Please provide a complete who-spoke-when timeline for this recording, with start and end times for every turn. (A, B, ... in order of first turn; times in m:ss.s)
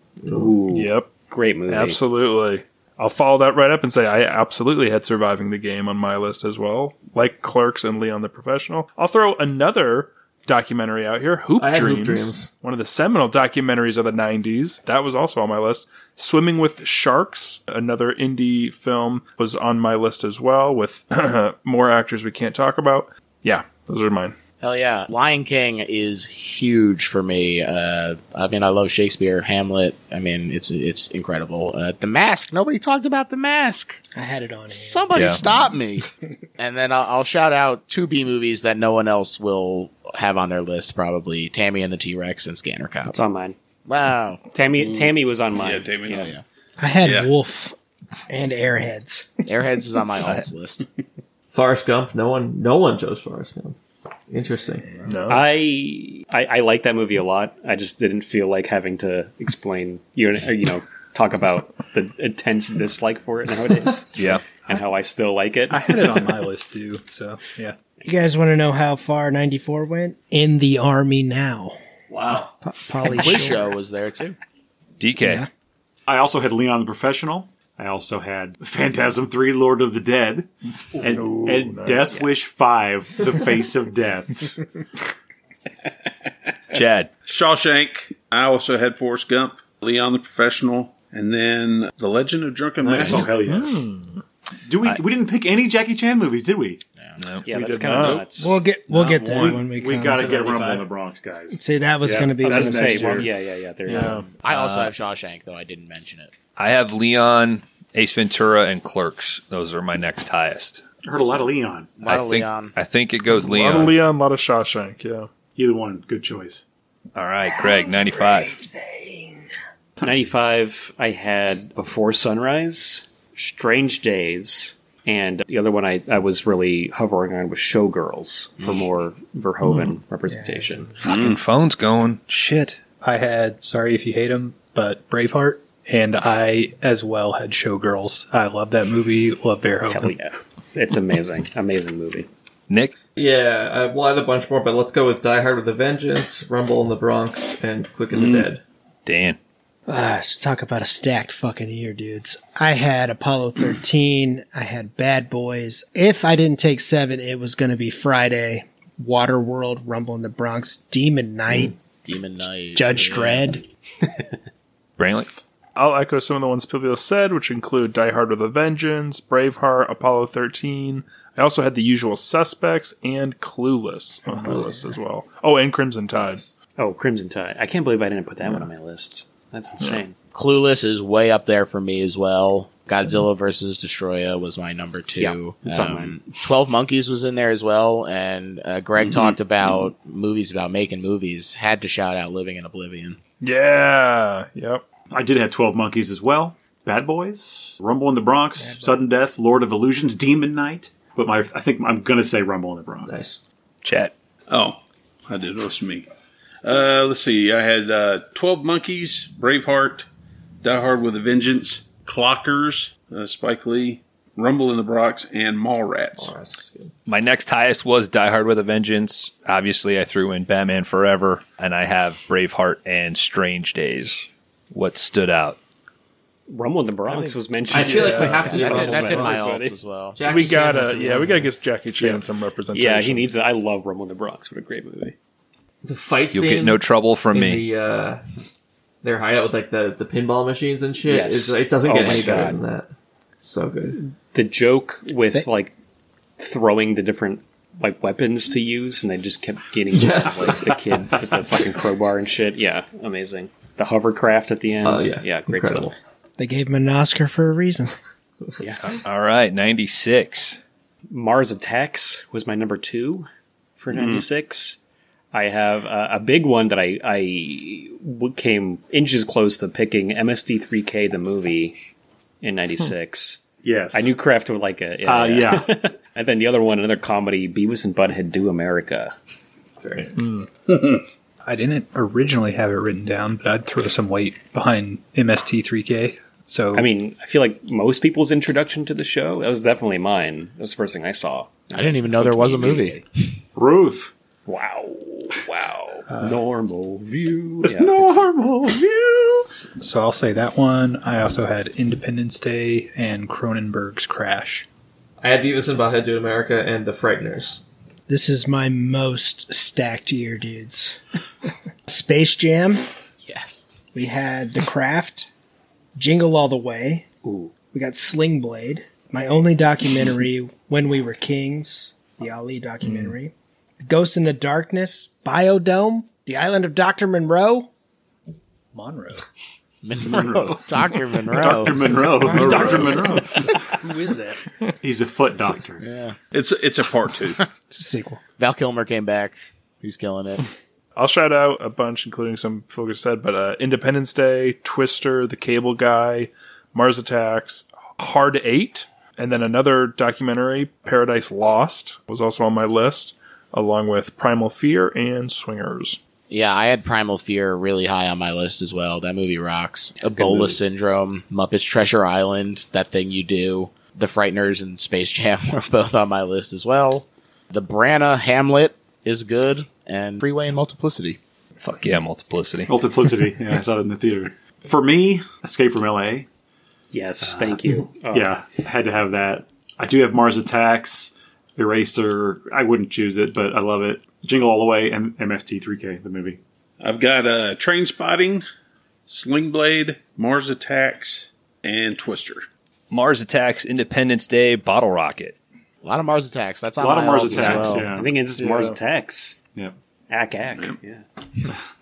0:00.2-0:00.5 A
0:00.3-0:02.0 B
0:00.7-0:01.1 C
0:01.7-0:24.3 C
0:11.6-0:12.5 A
0:24.6-0:34.0 D
0:34.1-0:35.4 E
0:34.7-0:43.1 D
0:35.1-0:35.4 F
0:43.1-0:43.6 B
0:43.9-0:44.4 D
0:44.5-0:45.9 B
0:44.7-0:46.3 G
0:46.1-0:46.4 D
0:46.8-0:47.8 E
0:47.0-0:47.3 G
0:48.3-0:49.4 E
0:49.5-0:50.8 D
0:51.5-0:53.8 A
0:54.3-0:55.0 A
0:55.0-0:55.5 C
0:55.3-1:06.3 B
1:04.1-1:04.4 F
1:05.7-1:07.8 H
1:08.0-1:11.8 E
1:12.1-1:12.5 A
1:12.6-1:13.7 E
1:13.1-1:14.4 D
1:15.0-1:15.4 F
1:15.2-1:15.5 E
1:16.1-1:24.6 I
1:21.0-1:22.2 C
1:26.7-1:27.1 F
1:27.2-1:33.3 G
1:32.8-1:33.2 A
1:33.0-1:33.8 I
1:33.4-1:34.2 C
1:34.6-1:36.8 I
1:37.2-1:37.5 F
1:37.4-1:38.6 B
1:37.5-1:38.3 C
1:37.8-1:38.4 G
1:38.4-1:40.4 E
1:38.9-1:43.3 I
1:40.2-1:40.9 A
1:41.5-1:43.3 E
1:42.0-1:44.3 B
1:43.9-1:44.3 C
1:44.0-1:46.3 D
1:44.4-1:44.9 F
1:46.6-1:50.8 F
1:51.0-1:51.9 I
1:52.0-1:52.7 D
1:52.0-1:54.0 F
1:53.4-1:55.3 C
1:55.6-1:56.6 I
1:57.1-1:58.6 F
2:00.0-2:10.9 B
2:10.3-2:10.8 E
2:11.0-2:12.8 F
2:11.0-2:11.4 G
2:12.4-2:20.1 H
2:19.9-2:22.3 B
2:22.7-2:22.9 F
2:23.2-2:28.6 A
2:28.1-2:28.5 G
2:29.0-2:29.4 F
2:29.9-2:41.8 E
2:42.0-2:43.4 D
2:42.7-2:43.6 E
2:45.0-2:45.3 F
2:45.8-2:56.5 C
2:54.4-2:54.8 A
2:56.8-3:00.1 B
3:00.3-3:13.2 D
3:05.2-3:06.1 B
3:09.0-3:09.4 G
3:13.4-3:14.8 C
3:15.1-3:23.2 I
3:18.6-3:19.0 E
3:23.0-3:23.4 A
3:23.8-3:24.1 F
3:24.5-3:26.1 G
3:26.6-3:30.0 G
3:30.6-3:36.3 G
3:36.2-3:36.9 A
3:37.0-3:45.6 F
3:46.5-3:49.8 B
3:47.7-3:49.6 A
3:47.7-3:48.5 C
3:48.0-3:50.2 D
3:50.2-3:51.5 A
3:50.2-3:53.3 C
3:52.7-3:55.1 B
3:55.8-3:58.2 A
3:56.3-3:57.6 F
3:59.0-4:04.0 A
4:01.1-4:02.6 B
4:04.0-4:05.7 B
4:06.4-4:15.9 B
4:09.9-4:11.6 A
4:14.8-4:16.0 A
4:16.4-4:18.0 E
4:18.6-4:18.9 B
4:18.8-4:20.6 F
4:21.1-4:23.3 B
4:23.8-4:24.8 B
4:23.9-4:24.2 G
4:25.3-4:31.8 B
4:32.4-4:39.1 B
4:33.6-4:34.1 I
4:35.0-4:35.8 I
4:39.8-4:40.4 A
4:40.2-4:40.4 C
4:40.7-4:41.0 G
4:41.4-4:46.9 H
4:46.7-4:53.0 B
4:51.7-4:53.3 D
4:53.5-4:54.1 I
4:54.4-4:58.1 B
4:56.1-4:56.4 H
4:57.6-4:58.3 I
4:57.7-4:59.6 G
4:59.8-5:04.7 H
5:05.2-5:07.6 A
5:08.1-5:11.0 E
5:11.9-5:12.8 E
5:13.2-5:13.6 D
5:13.9-5:15.3 E
5:15.9-5:17.0 E
5:17.2-5:17.5 B
5:17.7-5:27.7 E
5:22.8-5:23.1 C
5:28.7-5:29.2 H
5:29.8-5:32.9 D
5:30.0-5:33.9 I
5:32.3-5:33.1 C
5:32.5-5:32.8 H
5:33.8-5:34.4 H
5:34.8-5:35.8 I
5:35.8-5:36.2 D
5:36.3-5:37.5 G
5:37.7-5:38.2 E
5:38.4-5:40.4 D
5:41.0-5:56.0 C
5:56.3-6:11.2 D
6:00.0-6:00.6 B
6:11.6-6:12.7 F
6:12.7-6:16.3 I
6:16.9-6:18.4 B
6:17.2-6:26.4 I
6:26.8-6:28.4 G
6:29.1-6:32.4 G
6:32.9-6:35.4 F
6:35.8-6:37.9 D
6:36.8-6:38.1 I
6:37.2-6:39.4 B
6:38.4-6:38.8 C
6:40.1-6:41.0 B
6:40.5-6:40.8 G